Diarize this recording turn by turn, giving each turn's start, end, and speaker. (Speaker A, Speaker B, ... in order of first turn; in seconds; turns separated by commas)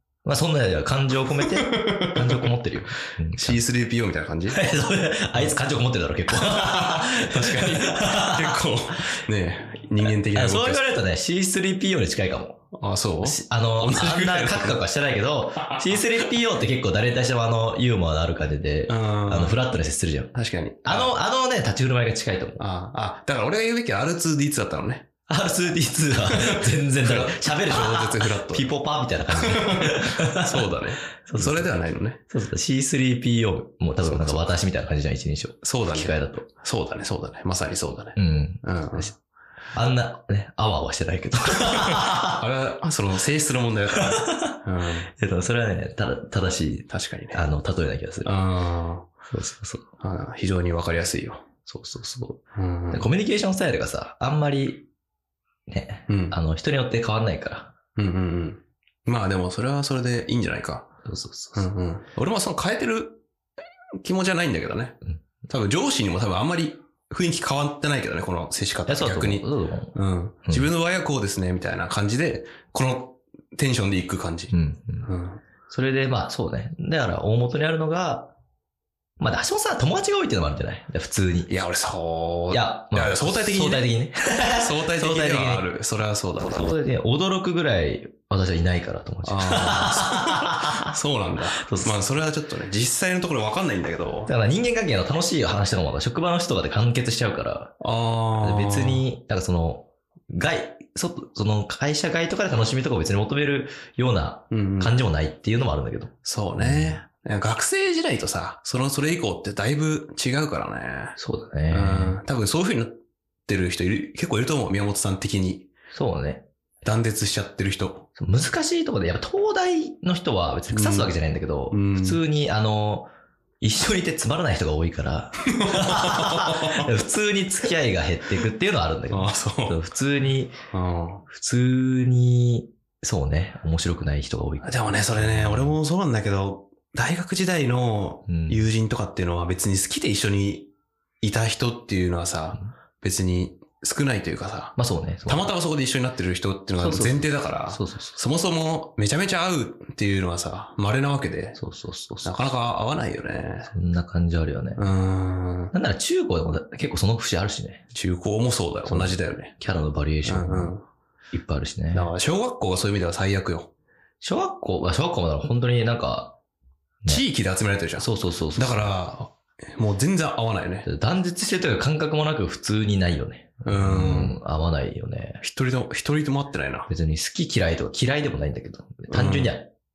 Speaker A: 0.2-3.6, Speaker B: 1.4-2.5, Speaker B: 3.3-4.7, Speaker A: 4.5-8.6, Speaker B: 6.3-10.8, Speaker A: 10.0-12.6, Speaker B: 12.7-14.8, Speaker A: 13.2-20.3, Speaker B: 18.9-19.6, Speaker B: 20.3-21.2, Speaker A: 20.8-22.6, Speaker B: 22.6-25.1, Speaker A: 25.3-30.7, Speaker B: 26.2-28.7, Speaker B: 29.3-32.2, Speaker A: 31.2-31.7, Speaker A: 32.3-36.5, Speaker B: 34.0-34.5, Speaker B: 35.6-39.1, Speaker A: 38.2-39.1, Speaker A: 39.7-42.4, Speaker B: 41.8-45.1, Speaker A: 44.0-44.6, Speaker A: 45.2-48.4, Speaker B: 46.9-47.5, Speaker B: 48.2-49.1, Speaker A: 49.3-49.9, Speaker B: 50.0-51.4, Speaker A: 51.6-54.9, Speaker B: 52.5-53.1, Speaker A: 55.7-57.7, Speaker B: 56.1-56.4, Speaker B: 58.0-60.9, Speaker A: 61.0-61.7, Speaker B: 61.5-63.2, Speaker B: 64.0-74.5, Speaker A: 68.9-69.9, Speaker A: 70.5-70.7, Speaker A: 74.5-75.1, Speaker B: 75.0-75.4, Speaker A: 75.7-78.3, Speaker A: 79.2-81.5, Speaker B: 81.5-83.9, Speaker A: 82.5-85.7, Speaker B: 84.5-86.7, Speaker A: 86.4-90.9, Speaker B: 89.2-94.3, Speaker A: 91.6-92.0, Speaker A: 94.2-97.8, Speaker B: 97.8-99.1, Speaker A: 98.3-107.0, Speaker B: 104.5-105.0, Speaker B: 106.2-111.2, Speaker A: 111.2-112.2, Speaker B: 111.7-115.7, Speaker A: 115.9-116.4, Speaker B: 116.8-118.1, Speaker A: 118.2-123.1, Speaker B: 120.7-121.1, Speaker B: 121.7-122.2, Speaker A: 123.6-130.5, Speaker B: 125.6-126.9, Speaker B: 129.1-129.8, Speaker B: 130.7-131.2, Speaker A: 131.3-135.8, Speaker B: 134.6-140.7, Speaker A: 138.3-138.7, Speaker B: 141.2-151.6, Speaker A: 144.8-145.5, Speaker A: 146.8-148.2, Speaker A: 151.6-152.5, Speaker B: 152.2-153.7, Speaker A: 153.7-154.8, Speaker B: 154.8-155.7, Speaker A: 155.7-157.8, Speaker B: 157.9-159.5, Speaker A: 158.9-160.7, Speaker B: 160.2-160.8, Speaker A: 161.3-162.1, Speaker B: 161.9-163.7, Speaker A: 164.2-166.3, Speaker B: 167.1-170.9, Speaker A: 168.0-169.0, Speaker A: 170.8-175.4, Speaker B: 173.6-174.4, Speaker B: 175.4-176.9, Speaker A: 176.9-179.7, Speaker B: 179.1-179.6